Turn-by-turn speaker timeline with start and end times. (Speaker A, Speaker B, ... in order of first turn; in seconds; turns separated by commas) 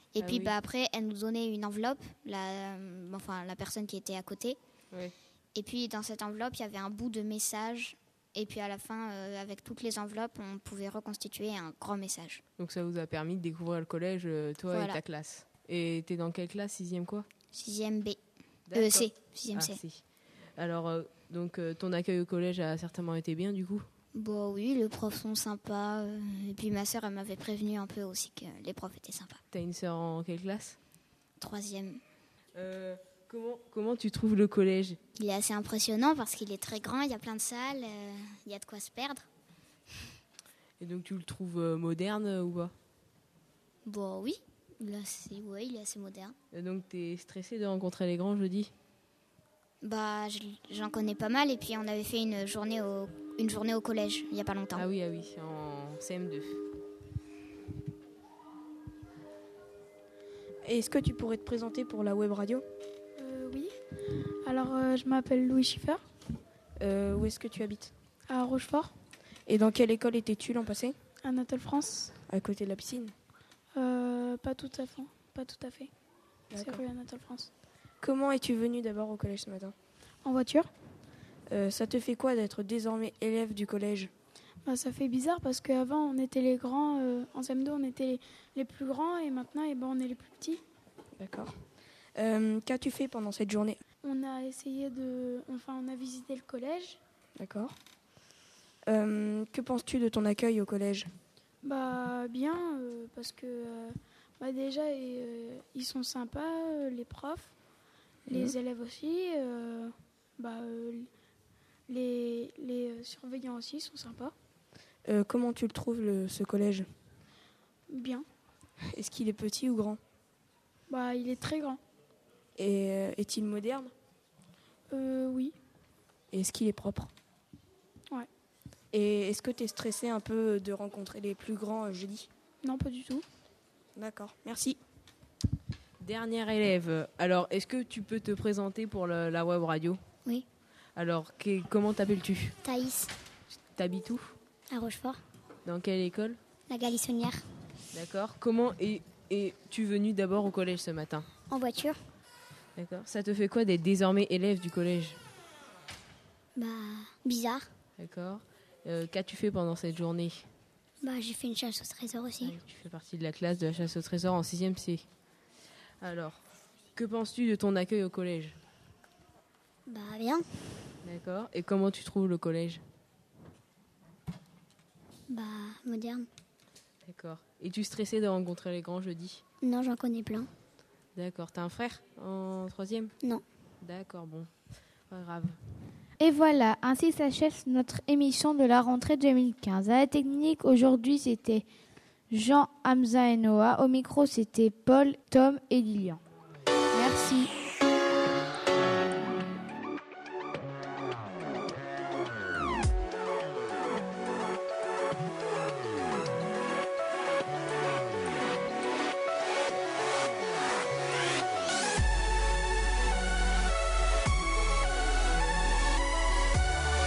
Speaker A: 0.1-4.6, Speaker B: 0.2-0.5, Speaker A: 5.5-12.4, Speaker B: 12.6-17.3, Speaker A: 14.7-15.0, Speaker A: 17.5-18.2, Speaker B: 18.7-20.0, Speaker A: 18.7-19.8, Speaker B: 20.6-23.9, Speaker A: 24.1-29.4, Speaker B: 29.5-30.8, Speaker A: 31.4-32.0, Speaker B: 32.5-35.0, Speaker A: 35.2-39.3, Speaker B: 40.8-42.7, Speaker A: 43.9-46.4, Speaker B: 46.5-48.7, Speaker A: 49.8-54.9, Speaker B: 54.7-56.6, Speaker C: 60.6-62.6, Speaker D: 63.2-63.7, Speaker D: 64.5-66.0, Speaker C: 66.8-67.9, Speaker D: 68.3-68.9, Speaker C: 69.5-71.0, Speaker D: 71.2-72.1, Speaker C: 72.3-73.1, Speaker D: 73.8-75.9, Speaker C: 76.5-76.8, Speaker D: 76.6-77.5, Speaker C: 78.0-79.7, Speaker D: 80.2-80.7, Speaker C: 81.5-84.1, Speaker D: 84.7-90.6, Speaker C: 91.2-91.5, Speaker C: 92.2-93.8, Speaker D: 94.0-97.0, Speaker C: 97.4-97.8, Speaker C: 98.9-101.1, Speaker D: 101.6-107.5, Speaker D: 108.3-111.1, Speaker C: 108.3-108.5, Speaker D: 111.9-114.3, Speaker C: 115.1-116.9, Speaker D: 117.9-118.3, Speaker C: 118.9-120.0, Speaker D: 120.9-121.8, Speaker C: 122.6-123.9, Speaker D: 124.9-125.5, Speaker C: 126.3-127.1, Speaker C: 128.9-132.3, Speaker D: 132.6-133.2, Speaker C: 134.0-134.8, Speaker B: 136.0-140.0, Speaker B: 141.0-142.6, Speaker E: 142.6-143.1, Speaker B: 143.8-144.3, Speaker E: 144.7-145.2, Speaker B: 145.7-146.4, Speaker E: 146.7-147.4, Speaker B: 147.9-151.3, Speaker E: 151.5-152.0, Speaker B: 152.8-155.2, Speaker E: 156.6-157.7, Speaker B: 158.0-160.5, Speaker E: 161.0-162.6, Speaker B: 162.4-165.1, Speaker B: 166.0-166.4, Speaker B: 167.0-168.6, Speaker E: 169.9-170.5, Speaker B: 171.0-172.8, Speaker E: 175.3-176.3, Speaker B: 177.1-179.4, Speaker E: 179.6-180.5, Speaker B: 181.2-183.1, Speaker B: 183.8-184.5, Speaker B: 185.1-185.6, Speaker F: 186.2-191.7, Speaker F: 192.3-196.2, Speaker F: 196.9-197.5